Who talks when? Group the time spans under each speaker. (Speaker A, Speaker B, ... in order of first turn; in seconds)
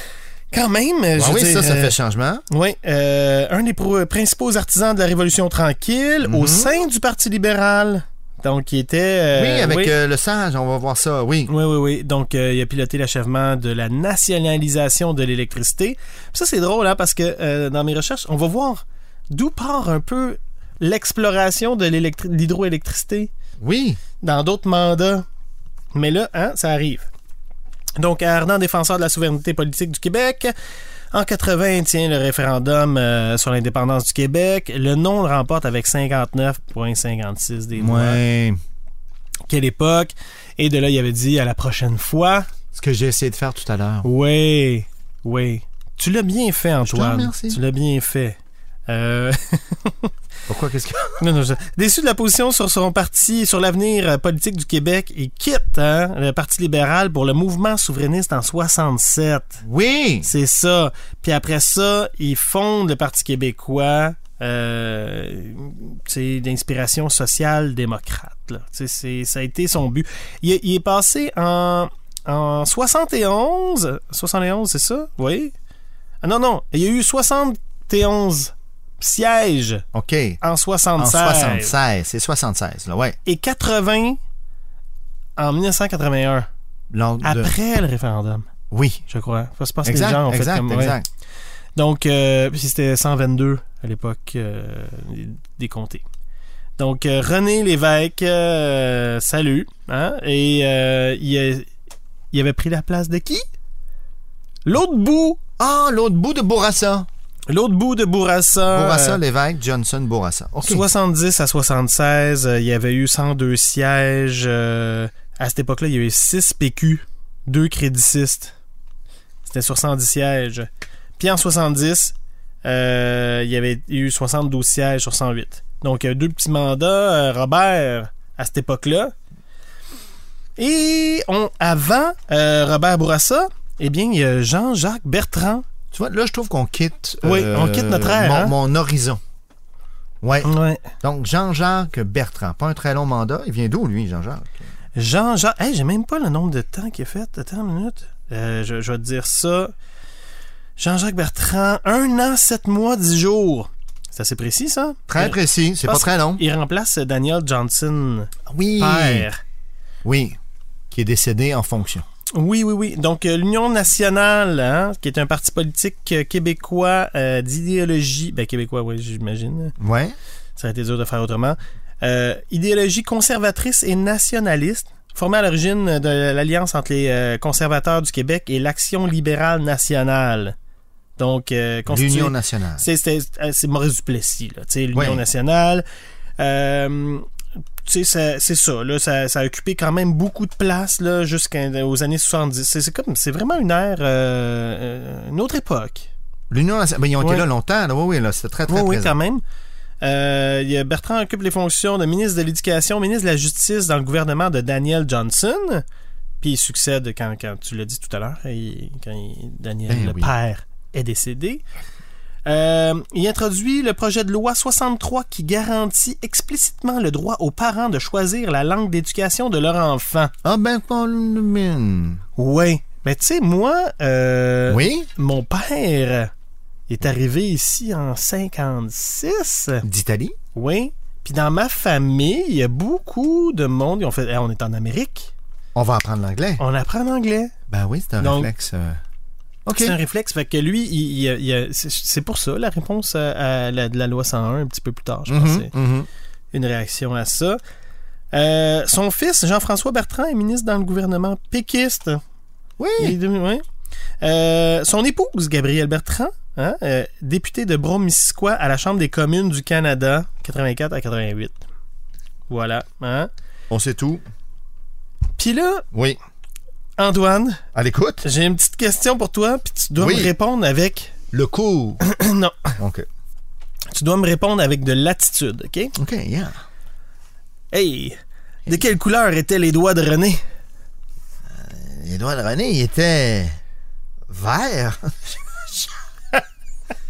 Speaker A: 0.5-2.0, 2.5-10.0, 11.5-23.3, 24.2-25.2, 25.9-27.1, 28.0-30.5, 31.1-38.2, 39.5-42.5, 44.0-48.4, 48.9-50.1, 51.2-59.6, 60.2-75.5, 76.2-79.8, 80.4-81.8, 83.2-84.2, 85.4-86.5, 87.2-88.5, 89.1-91.0, 91.8-96.0, 96.8-101.7, 102.3-103.5, 104.7-105.4, 107.5-109.2, 110.6-118.5, 119.4-129.1, 130.6-135.7, 137.2-138.6, 140.4-140.9, 145.0-149.7, 150.8-159.4, 162.4-169.7, 170.6-180.6, 181.2-185.8, 186.4-187.2, 187.8-196.1, 197.2-197.5, 198.7-199.4, 200.0-205.8, 206.4-211.6, 212.5-220.3, 222.4-226.3, 226.9-229.8, 230.5-235.3, 236.6-237.5, 238.2-238.5, 239.8-245.7, 246.5-247.6, 248.3-252.2, 253.0-253.6, 254.2-261.6, 262.5-263.3, 265.4-265.9, 267.0-267.6, 268.2-271.1, 272.0-272.8, 273.9-275.9, 277.7-280.4
Speaker B: 1.2-2.4, 6.2-6.8, 9.3-11.5, 23.6-24.0, 37.8-38.6, 42.7-44.1, 46.8-47.6, 50.5-51.2, 59.6-60.3, 79.9-80.4, 81.0-83.2, 86.9-87.5, 88.7-89.0, 89.8-91.1, 105.6-107.1, 108.7-110.8, 135.9-139.2, 140.2-144.6, 155.1-156.4, 158.5-159.3, 160.0-160.4, 160.9-162.1, 169.8-170.2, 181.9-182.8, 184.9-185.2, 196.5-199.2, 209.9-210.3, 220.4-222.2, 224.7-225.1, 229.8-230.3, 235.8-236.6, 237.7-239.0, 239.7-240.0, 245.3-246.1, 252.8-253.2, 263.7-264.2, 267.8-268.2, 270.0-270.3, 271.3-272.0, 272.8-273.1, 276.0-276.5, 281.5-283.6, 284.3-285.8